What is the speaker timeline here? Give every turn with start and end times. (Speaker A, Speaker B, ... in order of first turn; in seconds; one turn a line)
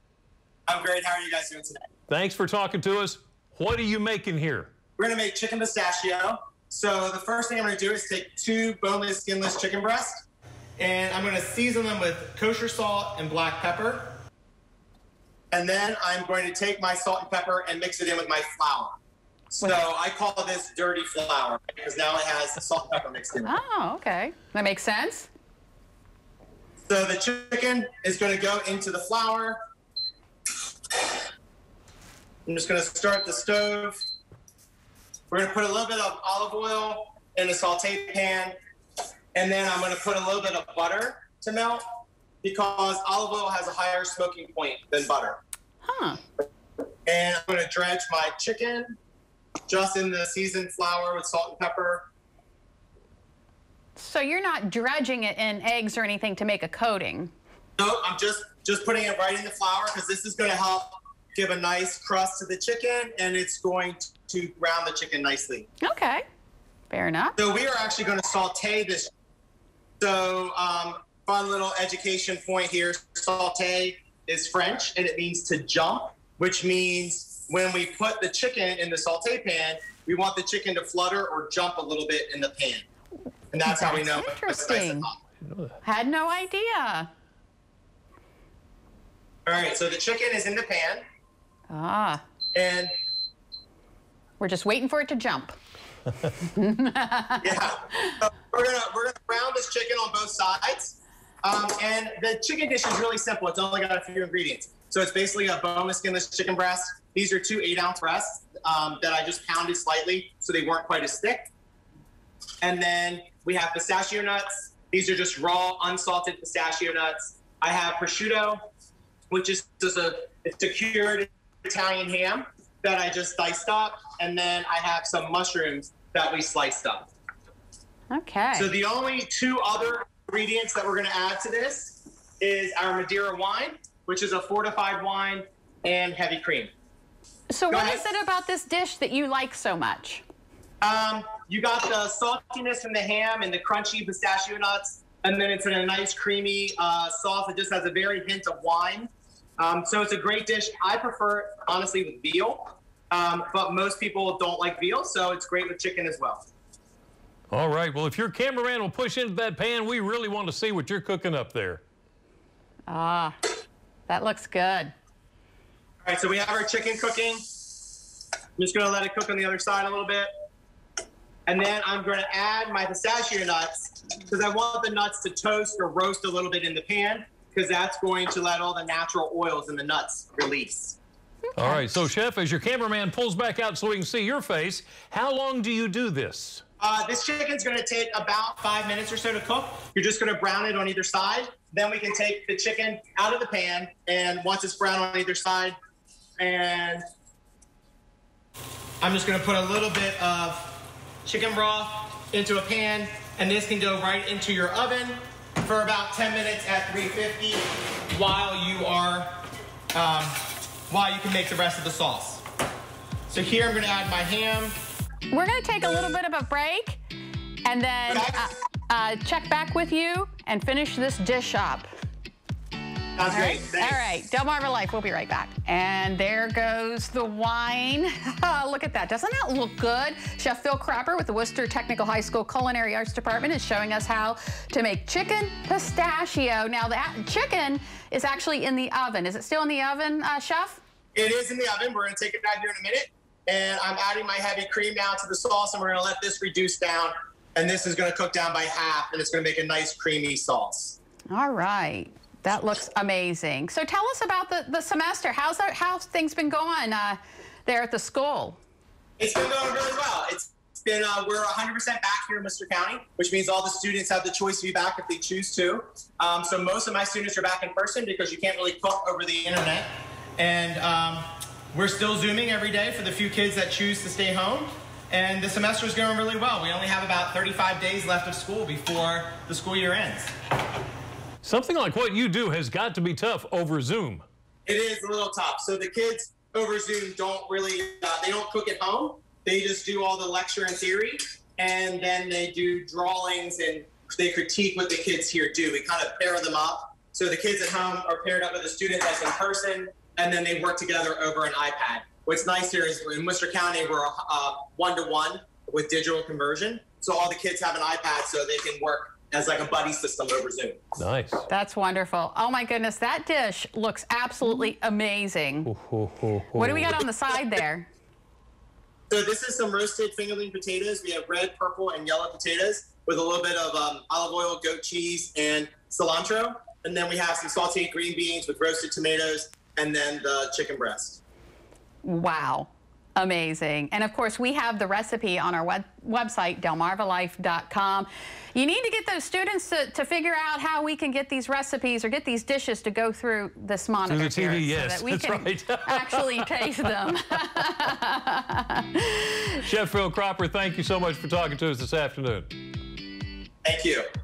Speaker A: 0.7-1.8
Speaker B: 2.1-4.7
Speaker A: 5.0-10.2
Speaker A: 10.8-14.2
Speaker A: 15.5-18.9
Speaker A: 19.5-23.6
Speaker C: 23.5-25.3
Speaker A: 26.9-29.6
Speaker A: 32.5-34.0
Speaker A: 35.3-38.5
Speaker A: 39.4-41.8
Speaker A: 42.4-45.4
Speaker C: 45.8-46.2
Speaker A: 47.1-49.0
Speaker A: 49.7-52.1
Speaker C: 54.0-57.3
Speaker A: 57.8-65.7
Speaker C: 65.8-66.2
Speaker C: 66.9-67.4
Speaker A: 67.4-69.1
Speaker A: 70.0-82.8
Speaker A: 83.5-85.2
Speaker C: 83.7-85.1
Speaker B: 85.5-85.8
Speaker C: 85.8-87.1
Speaker A: 89.5-91.0
Speaker C: 91.7-92.2
Speaker A: 92.5-92.9
Speaker C: 94.4-95.5
Speaker C: 96.4-97.5
Speaker A: 97.4-111.5
Speaker A: 112.6-118.6
Speaker A: 119.3-127.1
Speaker C: 128.1-128.7
Speaker A: 128.6-136.7
Speaker C: 137.5-140.2
Speaker A: 137.7-138.1
Speaker A: 140.8-156.4
Speaker B: 157.5-161.8
Speaker C: 162.9-163.4
Speaker C: 164.1-164.9
Speaker A: 166.1-167.4
Speaker A: 168.6-170.3
Speaker A: 171.5-181.0
Speaker C: 181.6-181.8
Speaker B: 181.6-186.6
Speaker A: 186.8-195.8
Speaker A: 196.4-197.0
Speaker A: 199.0-209.4
Speaker A: 209.9-212.4
Speaker A: 213.3-214.7
Speaker C: 215.3-217.0
Speaker C: 217.7-221.9
Speaker A: 218.1-218.5
Speaker A: 223.2-224.1
Speaker C: 223.2-240.8
Speaker A: 241.2-251.0
Speaker C: 251.3-258.6
Speaker A: 259.2-280.3
Speaker B: 281.4-284.2
Speaker A: 284.7-310.9
Speaker B: 311.0-311.5
Speaker C: 311.5-315.7
Speaker B: 315.7-317.0
Speaker C: 316.5-317.9
Speaker A: 319.1-331.2
Speaker C: 332.0-349.6
Speaker B: 344.1-346.9
Speaker B: 349.6-352.5
Speaker A: 353.6-354.1